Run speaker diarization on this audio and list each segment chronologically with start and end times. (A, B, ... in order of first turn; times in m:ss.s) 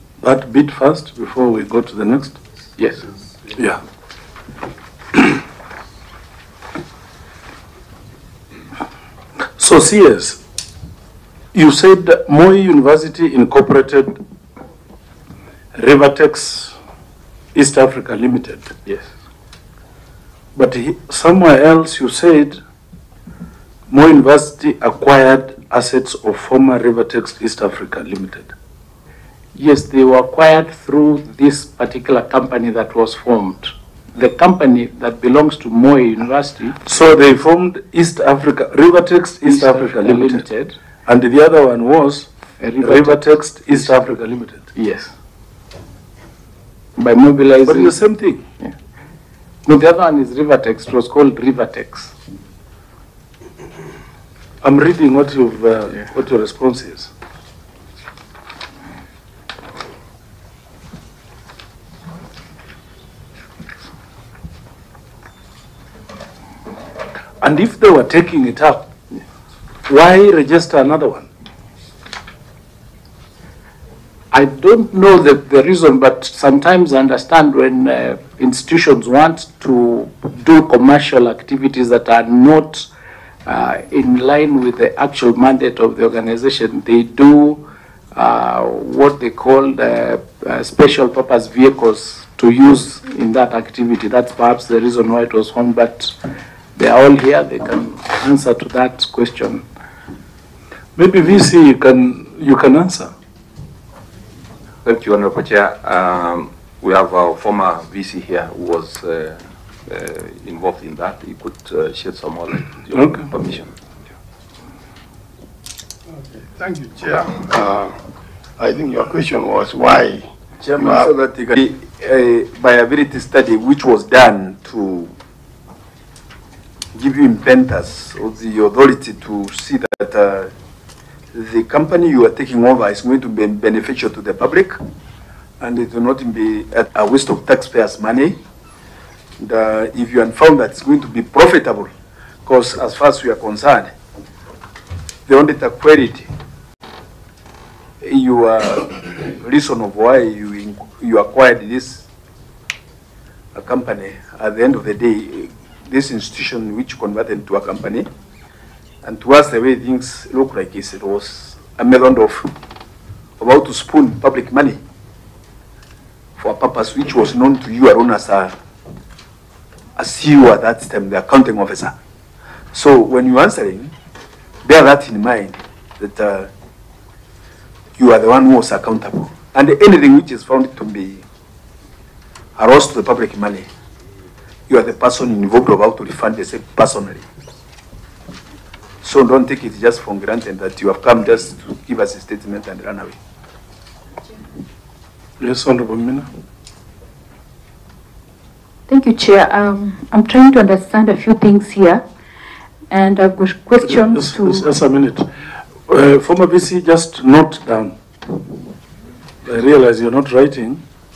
0:00.2-0:02.4 A
0:02.8-0:03.0 B
0:03.5-0:03.8 A
0:09.6-0:10.4 A
0:11.5-0:14.2 A
0:15.8-0:16.8 A
0:17.5-0:19.0 A
0:20.5-0:22.6 A
0:23.9-0:28.5 A
0:29.5-0:36.8 B
0:36.8-0:40.4 A
0:39.4-0:40.8 B
0:41.0-0:42.3 A
0:42.6-0:44.1 B
0:42.8-0:44.7 A
0:44.7-0:45.1 B
0:47.0-0:48.0 B
0:47.6-0:48.4 A
0:49.6-0:52.1 B
0:54.6-0:57.1 A
1:07.4-1:08.9 A
1:09.9-1:11.3 A
1:14.3-1:22.9 B
1:23.4-1:36.1 B
1:36.8-1:39.6 B
1:41.0-1:43.1 A
1:44.8-1:53.7 C
1:52.9-1:53.3 A
1:56.1-1:58.0 D
1:58.6-2:01.1 D
2:00.6-2:05.1 E
2:06.9-2:10.5 E
2:11.3-2:14.8 E
2:15.6-2:18.4 E
2:19.4-2:21.9 E
2:22.4-2:23.9 E
2:25.3-2:26.3 E
2:28.0-2:32.0 E
2:33.5-2:38.1 E
2:39.0-2:42.5 E
2:43.4-2:44.8 E
2:46.4-2:48.5 E
2:50.0-2:51.9 E
2:52.7-2:53.9 E
2:54.6-2:56.5 E
2:58.0-3:01.2 E
3:02.6-3:03.7 E
3:04.7-3:07.2 E
3:09.0-3:13.2 E
3:15.4-3:16.3 A
3:18.9-3:22.0 F
3:22.9-3:24.7 F
3:23.8-3:25.3 A
3:25.9-3:28.0 A
3:29.4-3:30.8 A